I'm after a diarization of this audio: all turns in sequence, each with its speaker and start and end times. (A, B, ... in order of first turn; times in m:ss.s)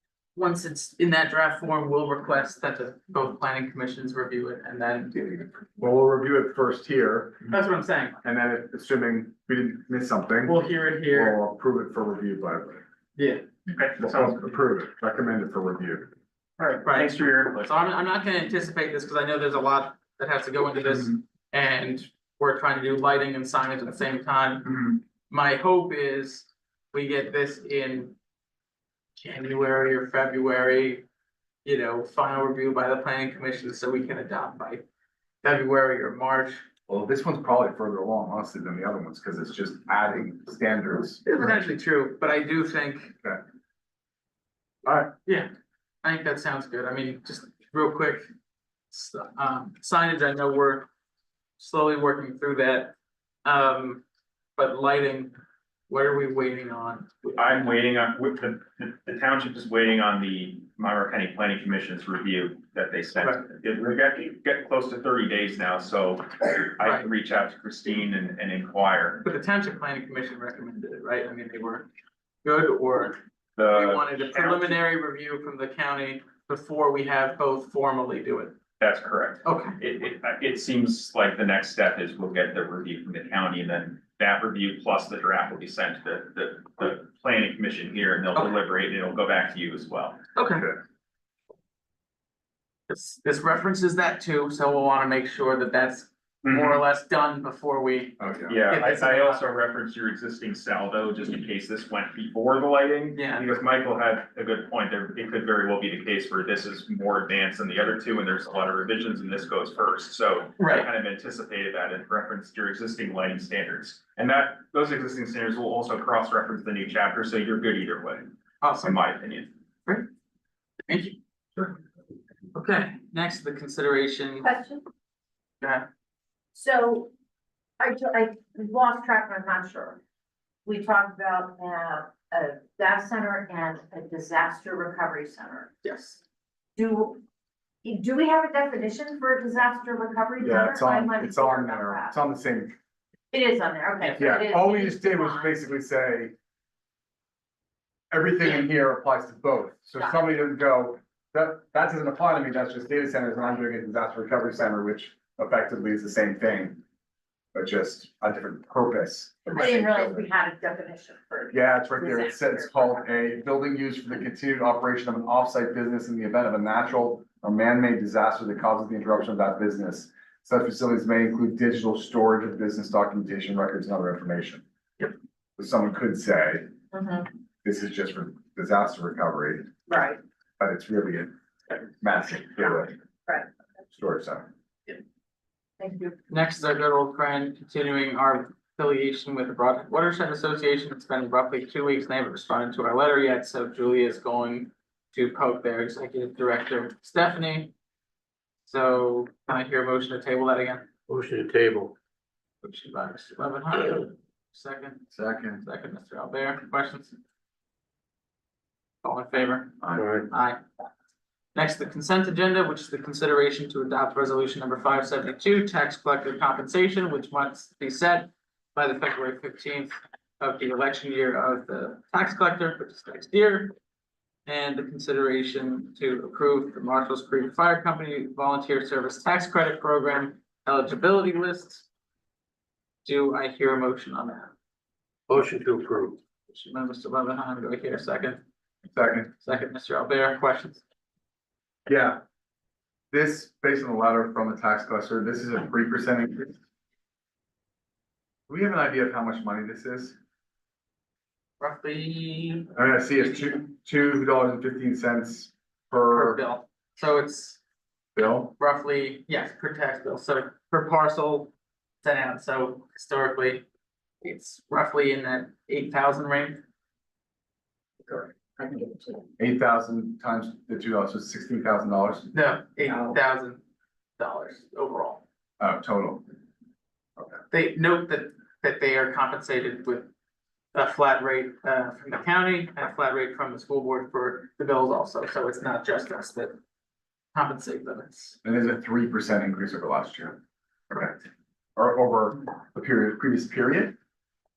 0:00.4-0:05.5 A
0:05.8-0:07.6 B
0:07.5-0:08.2 A
0:08.2-0:12.8 B
0:10.4-0:11.4 A
0:13.2-0:13.4 A
0:13.7-0:14.4 C
0:14.0-0:16.1 B
0:16.6-0:17.7 C
0:16.8-0:28.2 A
0:29.2-0:31.0 A
0:31.6-0:34.8 A
0:35.4-0:36.6 A
0:36.9-0:41.3 B
0:41.2-0:43.2 A
0:44.8-0:45.1 B
0:46.0-0:48.2 A
0:48.9-0:50.9 A
0:51.6-0:54.0 A
0:54.6-0:55.3 A
0:55.9-0:57.4 A
0:57.4-1:09.2 C
1:06.8-1:07.1 A
1:09.2-1:11.9 A
1:12.4-1:13.2 A
1:13.6-1:14.8 C
1:13.7-1:18.6 A
1:18.8-1:30.2 C
1:19.4-1:19.8 A
1:30.4-1:30.7 A
1:32.9-1:39.4 A
1:36.4-1:36.8 C
1:38.2-1:38.6 B
1:38.5-1:58.3 C
1:43.2-1:43.5 A
1:50.6-1:50.9 A
1:58.6-1:59.0 A
1:58.8-1:59.5 C
2:00.9-2:01.7 A
2:02.5-2:04.5 A
2:04.4-2:04.8 D
2:06.6-2:07.1 D
2:07.8-2:10.0 D
2:10.6-2:15.7 D
2:15.8-2:16.2 A
2:16.8-2:17.2 D
2:17.8-2:22.2 D
2:20.4-2:22.8 B
2:23.3-2:25.5 D
2:24.0-2:24.3 A
2:24.2-2:26.3 B
2:28.1-2:36.8 B
2:37.5-2:40.3 B
2:39.5-2:43.0 D
2:41.5-2:54.6 B
2:55.6-2:56.7 B
2:56.9-2:57.3 D
2:57.6-2:59.7 B
2:59.9-3:00.2 D
3:00.6-3:01.3 B
3:02.0-3:03.0 B
3:03.9-3:04.4 B
3:05.8-3:06.2 D
3:06.3-3:17.7 A
3:18.7-3:20.9 A
3:21.1-3:22.0 E
3:22.6-3:27.2 A
3:25.1-3:25.6 B
3:29.0-3:30.6 A
3:29.8-3:30.1 B
3:30.0-3:30.3 E
3:31.5-3:43.7 A
3:44.5-3:51.9 A
3:53.0-3:54.5 A
3:55.3-3:56.2 E
3:56.5-3:58.4 A
3:58.9-3:59.3 B
3:59.4-4:00.8 A
4:01.9-4:02.2 B
4:03.1-4:06.6 B
4:08.5-4:10.2 B
4:11.6-4:12.7 A
4:12.8-4:16.4 B
4:16.1-4:17.6 A
4:18.2-4:18.5 B
4:18.6-4:23.6 A
4:24.2-4:26.6 A
4:29.4-4:32.3 B
4:32.3-4:33.6 A
4:34.2-4:35.2 A
4:35.6-4:36.3 B
4:37.5-4:40.1 A
4:40.7-4:46.6 A
4:47.3-4:48.4 A
4:48.4-4:50.4 B
4:50.9-4:51.2 B
4:51.8-4:54.0 B